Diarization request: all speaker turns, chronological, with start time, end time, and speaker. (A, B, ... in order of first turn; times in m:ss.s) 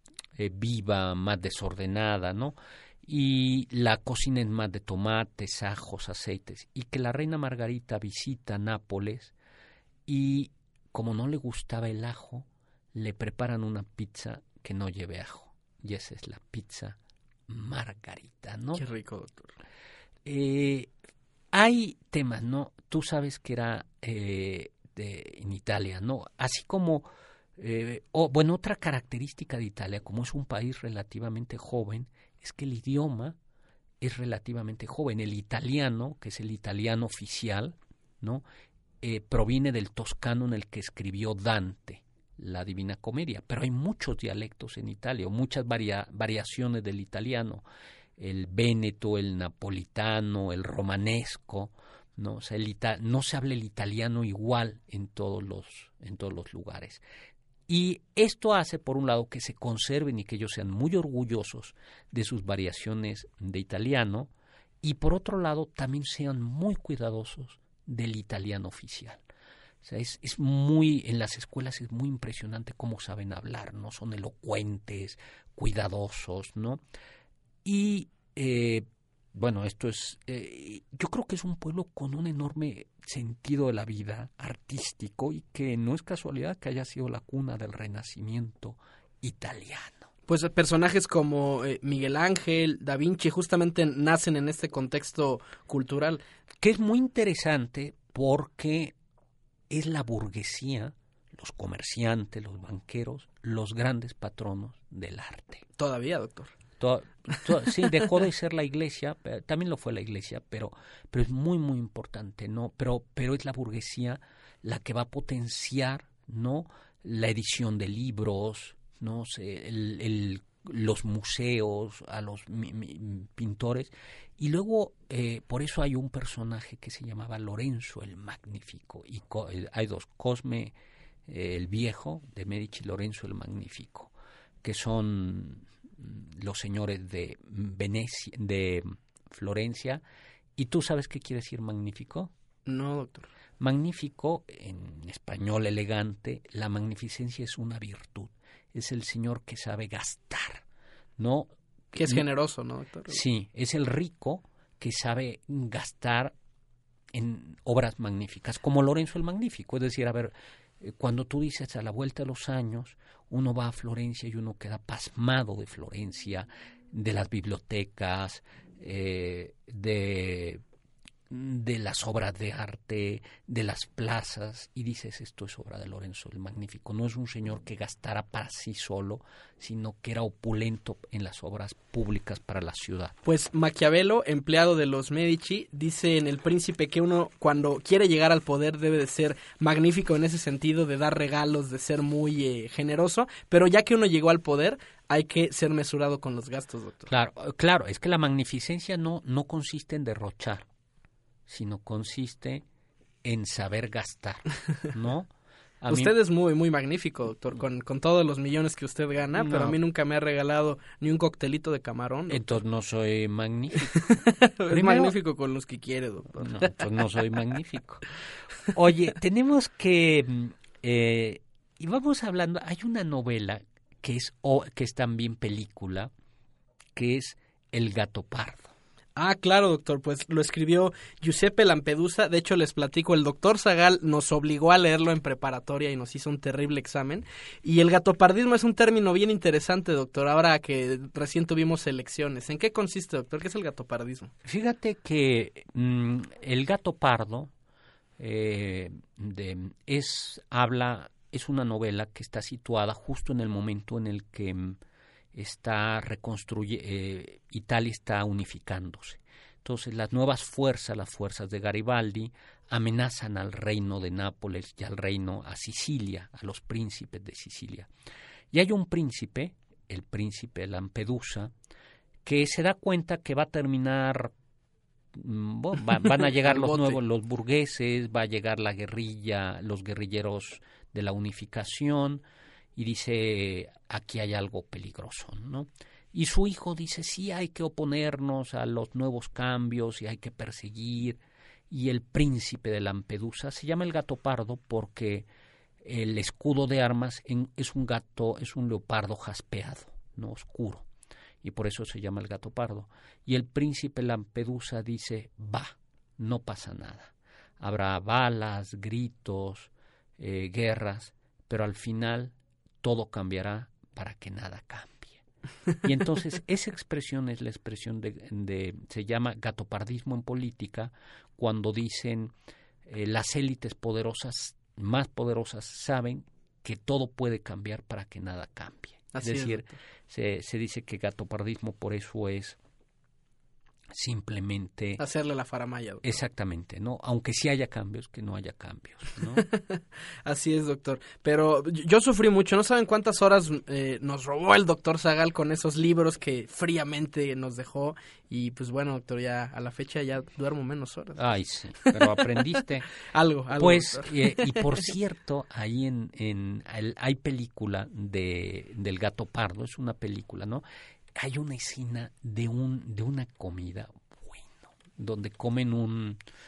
0:00.4-0:09.3 A
0:10.1-0:18.8 A
0:18.7-0:19.5 B
0:20.2-0:20.9 A
0:21.5-0:33.4 A
0:34.0-0:38.4 A
0:39.0-0:47.6 A
0:48.2-0:57.0 A
0:57.7-1:04.3 A
1:04.8-1:09.2 A
1:09.8-1:16.8 A
1:17.6-1:30.1 A
1:30.3-1:36.2 B
1:36.6-1:38.9 A
1:39.7-1:45.6 A
1:45.8-1:46.5 B
1:46.8-2:10.7 A
2:11.3-2:14.1 A
2:14.6-2:20.0 A
2:20.6-2:22.3 A
2:22.6-2:23.3 B
2:23.6-2:30.6 A
2:31.2-2:32.3 A
2:31.9-2:33.2 B
2:33.1-2:36.3 A
2:37.1-2:50.6 A
2:51.3-3:03.1 A
3:03.2-3:17.1 B
3:17.1-3:20.6 A
3:21.5-3:22.6 A
3:23.2-3:25.3 A
3:25.8-3:26.1 A
3:25.9-3:32.6 B
3:29.4-3:29.8 A
3:32.3-3:34.1 A
3:33.9-3:36.8 B
3:34.7-3:35.2 A
3:36.3-3:38.1 A
3:38.7-3:46.1 A
3:47.0-3:48.7 A
3:49.2-4:04.3 B
4:04.4-4:07.5 A
4:08.2-4:14.8 A
4:15.3-4:27.9 A
4:28.5-4:31.5 A
4:32.2-4:34.3 A
4:35.1-4:42.2 A
4:36.0-4:37.0 B
4:42.8-4:55.3 A
4:55.8-5:00.8 A
5:01.4-5:15.2 A
5:15.8-5:22.3 A
5:22.8-5:32.6 A
5:29.1-5:29.8 B
5:33.9-5:35.0 A
5:35.0-5:36.1 B
5:36.0-5:39.5 A
5:39.3-5:51.2 B
5:51.2-5:52.9 A
5:51.8-5:52.2 B
5:53.0-5:54.7 B
5:53.6-6:00.6 A
6:01.2-6:06.2 A